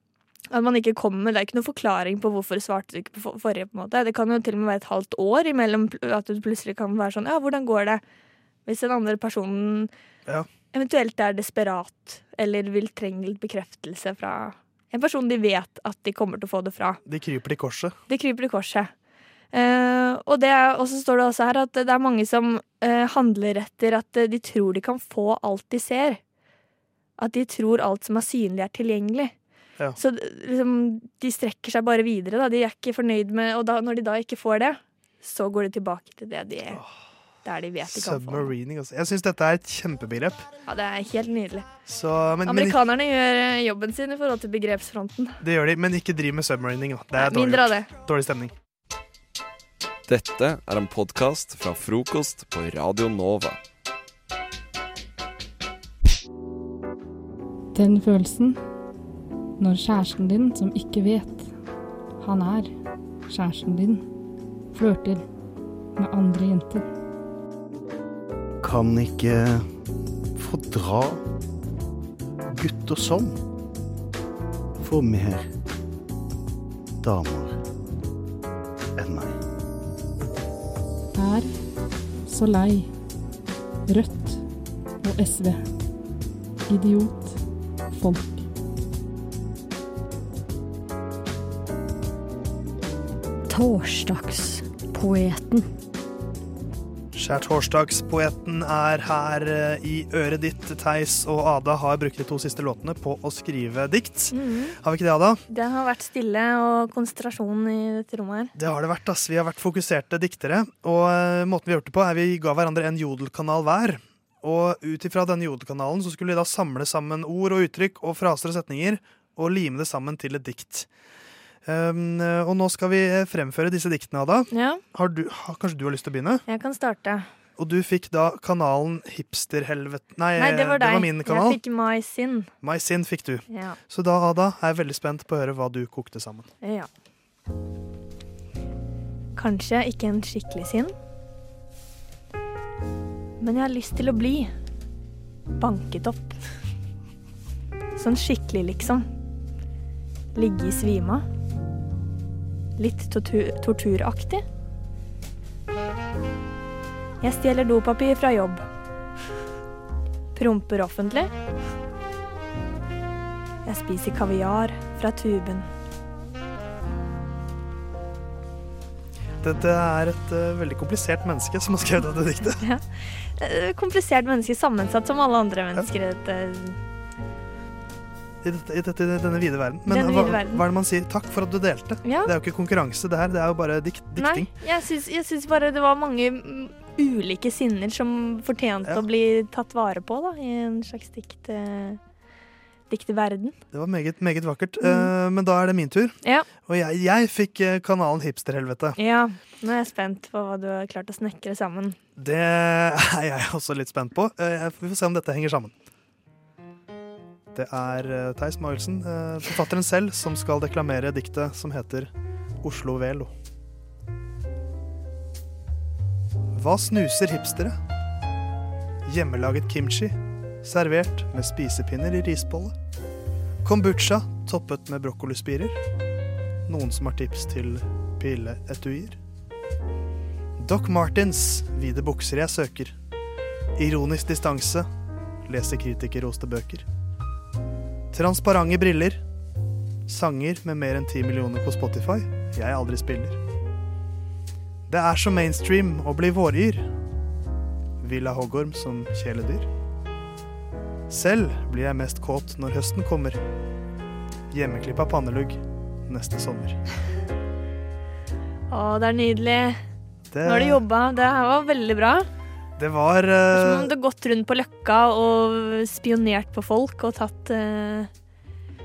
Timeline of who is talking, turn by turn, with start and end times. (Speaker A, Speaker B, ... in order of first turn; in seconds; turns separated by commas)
Speaker A: 0.5-8.0, Speaker A: 8.7-9.9, Speaker A: 10.7-17.0, Speaker B: 17.1-17.9, Speaker A: 18.1-18.9, Speaker A: 19.5-26.2, Speaker A: 27.2-29.3, Speaker A: 30.0-36.8, Speaker A: 37.4-38.5, Speaker B: 37.9-40.5, Speaker A: 40.6-41.7, Speaker B: 41.9-42.8, Speaker A: 42.4-45.4, Speaker B: 45.4-48.5, Speaker A: 47.1-47.9, Speaker C: 50.1-53.6, Speaker D: 57.8-58.6, Speaker D: 59.6-61.5, Speaker D: 62.2-62.7, Speaker D: 63.3-64.0, Speaker D: 64.7-65.2, Speaker D: 66.0-66.8, Speaker E: 68.6-69.7, Speaker E: 70.4-71.2, Speaker E: 72.5-73.4, Speaker E: 74.8-75.5, Speaker E: 77.0-77.6, Speaker E: 79.0-79.4, Speaker D: 81.2-81.5, Speaker D: 82.3-82.9, Speaker D: 83.9-84.3, Speaker D: 85.0-85.6, Speaker D: 86.7-87.3, Speaker D: 88.0-88.4, Speaker F: 93.5-95.7, Speaker B: 97.1-105.4, Speaker A: 104.3-104.8, Speaker A: 105.5-108.5, Speaker B: 108.5-120.9, Speaker B: 121.6-126.4, Speaker A: 124.5-124.8, Speaker A: 126.5-127.3, Speaker B: 127.6-131.6, Speaker A: 130.4-132.5, Speaker B: 132.6-136.5, Speaker A: 133.5-133.8, Speaker A: 136.6-136.9, Speaker A: 139.4-140.9, Speaker A: 143.4-144.5, Speaker A: 145.6-146.4, Speaker A: 148.0-149.1, Speaker A: 150.3-151.2, Speaker A: 152.8-154.4, Speaker A: 157.2-158.6, Speaker A: 160.3-161.3, Speaker A: 163.6-165.7, Speaker B: 169.4-172.6, Speaker A: 172.6-176.8, Speaker B: 178.4-184.5, Speaker A: 179.9-180.6, Speaker A: 182.0-182.3, Speaker A: 184.2-192.0, Speaker A: 192.9-193.6, Speaker B: 193.7-199.0, Speaker A: 194.8-195.1, Speaker A: 199.0-202.0, Speaker B: 202.2-205.7, Speaker B: 207.5-212.1, Speaker B: 212.6-213.3, Speaker B: 216.5-217.8, Speaker B: 219.1-222.8, Speaker B: 223.6-225.8, Speaker B: 226.7-229.2, Speaker B: 230.6-232.9, Speaker B: 233.8-234.9, Speaker B: 235.4-236.9, Speaker B: 238.1-239.2, Speaker B: 240.1-243.4, Speaker B: 244.9-246.9, Speaker B: 248.0-249.7, Speaker B: 251.1-253.4, Speaker B: 254.5-256.8, Speaker A: 258.7-259.8, Speaker B: 260.3-260.8, Speaker A: 260.4-262.3, Speaker B: 262.8-263.9, Speaker A: 263.5-268.1